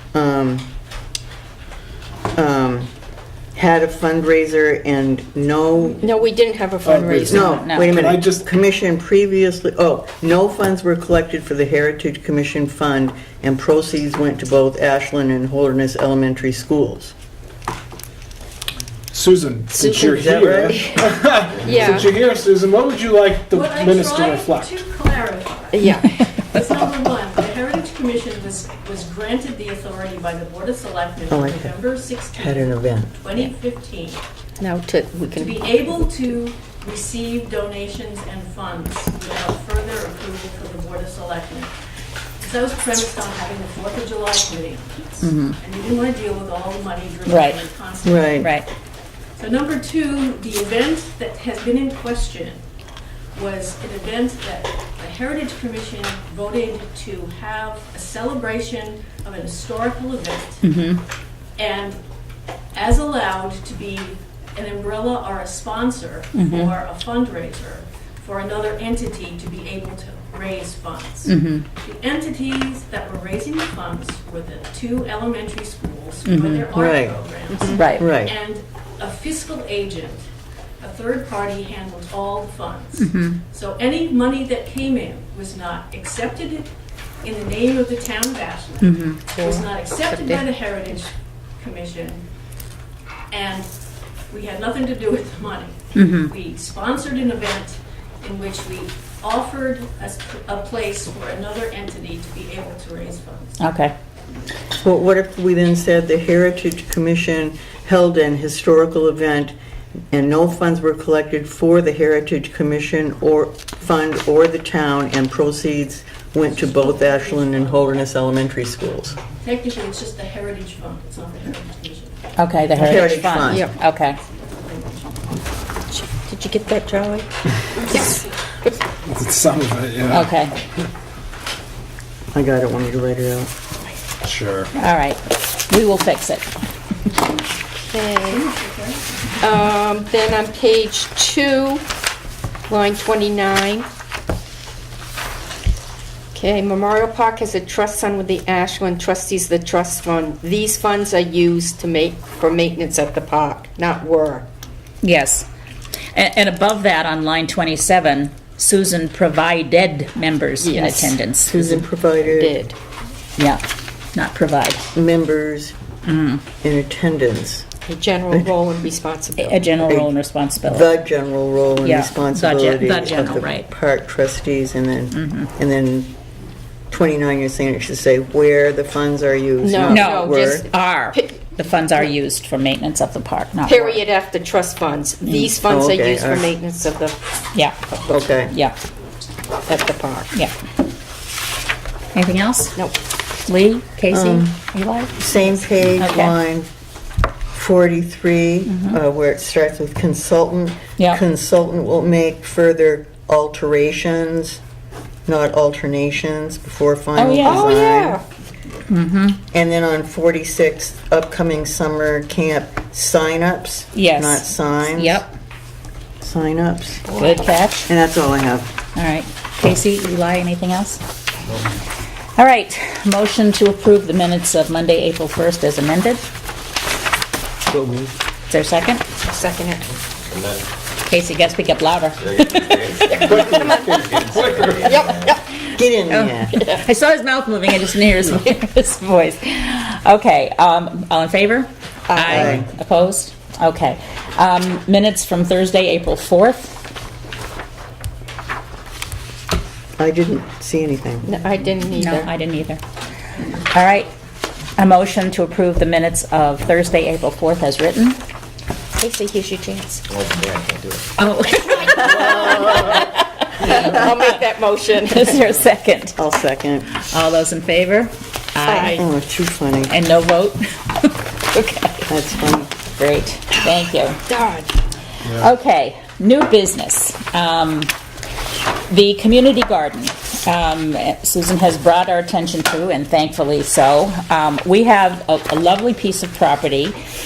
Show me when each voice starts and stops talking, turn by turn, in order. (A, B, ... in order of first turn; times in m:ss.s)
0:00.1-0:00.7 A
0:02.4-0:02.9 A
0:03.6-0:06.1 A
0:06.0-0:07.5 B
0:06.8-0:08.5 C
0:06.9-0:17.1 A
0:07.4-0:08.0 D
0:19.1-0:24.7 C
0:19.8-0:21.0 A
0:21.6-0:22.1 B
0:23.5-0:34.2 E
0:25.7-0:26.2 B
0:31.3-0:31.8 A
0:32.4-0:33.2 A
0:34.6-0:35.6 B
0:35.4-0:41.7 E
0:42.4-0:48.6 E
0:45.2-0:45.6 D
0:47.3-0:47.6 D
0:48.0-0:48.5 A
0:48.4-0:48.7 D
0:49.4-0:52.6 E
0:53.4-1:00.6 E
1:00.6-1:01.0 D
1:01.6-1:02.0 E
1:02.7-1:20.3 E
1:06.4-1:06.7 D
1:11.3-1:11.7 D
1:16.2-1:16.7 D
1:16.7-1:17.1 A
1:17.7-1:18.0 D
1:18.0-1:18.3 A
1:20.8-1:32.2 E
1:23.0-1:23.4 D
1:28.8-1:29.3 D
1:29.4-1:30.5 B
1:33.3-1:33.7 E
1:34.3-1:43.6 E
1:36.0-1:36.3 D
1:43.6-1:43.9 D
1:44.8-1:49.5 A
1:50.1-1:59.2 A
1:56.6-1:58.0 E
1:59.4-2:02.2 E
2:02.4-2:04.2 D
2:02.8-2:03.7 A
2:02.9-2:03.6 E
2:04.5-2:05.2 E
2:05.9-2:08.8 B
2:09.0-2:10.3 C
2:10.1-2:10.5 D
2:12.3-2:13.5 A
2:14.2-2:14.7 C
2:14.8-2:16.5 D
2:17.8-2:18.5 B
2:18.3-2:19.1 E
2:19.4-2:21.8 B
2:22.7-2:23.9 B
2:26.3-2:34.5 B
2:35.0-2:35.5 D
2:36.1-2:41.8 D
2:40.6-2:41.2 B
2:41.5-2:42.6 A
2:42.2-2:42.8 B
2:43.4-2:43.6 D
2:44.1-2:44.8 D
2:45.0-2:45.7 A
2:46.0-2:46.4 D
2:46.6-2:47.7 A
2:47.9-2:49.6 B
2:49.4-2:51.0 D
2:50.6-2:56.1 A
2:51.8-2:53.7 D
2:55.1-2:55.5 D
2:56.9-3:00.6 A
2:59.6-3:01.4 B
2:59.9-3:04.0 D
3:03.6-3:07.3 B
3:05.2-3:05.5 D
3:05.6-3:06.5 A
3:08.1-3:08.5 A
3:08.5-3:08.8 D
3:09.7-3:10.4 B
3:12.1-3:12.8 D
3:13.5-3:15.4 D
3:14.1-3:14.6 A
3:15.2-3:16.7 A
3:16.0-3:16.4 D
3:17.5-3:24.6 A
3:18.7-3:19.0 D
3:25.3-3:28.2 A
3:27.2-3:27.7 D
3:27.4-3:28.2 B
3:28.9-3:29.4 D
3:29.5-3:35.2 A
3:33.9-3:35.3 D
3:36.2-3:37.0 A
3:37.1-3:37.5 B
3:37.2-3:37.9 D
3:37.9-3:38.7 A
3:39.0-3:41.0 D
3:42.4-3:46.2 D
3:48.5-3:49.0 D
3:49.3-3:49.9 B
3:50.3-3:50.6 F
3:51.0-3:53.4 D
3:52.3-3:55.2 F
3:52.7-3:55.1 C
3:53.3-3:55.4 B
3:55.8-3:56.6 A
3:56.1-4:06.8 D
4:02.1-4:02.6 B
4:02.2-4:02.7 A
4:10.0-4:11.3 A
4:11.2-4:12.3 B
4:11.9-4:12.8 D
4:13.4-4:13.7 E
4:13.7-4:14.1 D
4:14.8-4:18.2 D
4:19.0-4:20.1 B
4:20.1-4:21.0 F
4:21.2-4:24.1 D
4:21.9-4:23.0 B
4:23.6-4:25.5 B
4:25.1-4:26.2 D
4:26.2-4:27.0 A
4:26.9-4:29.0 D
4:28.6-4:29.0 B
4:29.0-4:30.0 A
4:29.9-4:32.1 D
4:32.1-4:32.7 A
4:32.9-4:34.2 D
4:34.3-4:34.7 B
4:35.4-4:37.9 D
4:38.9-4:47.0 D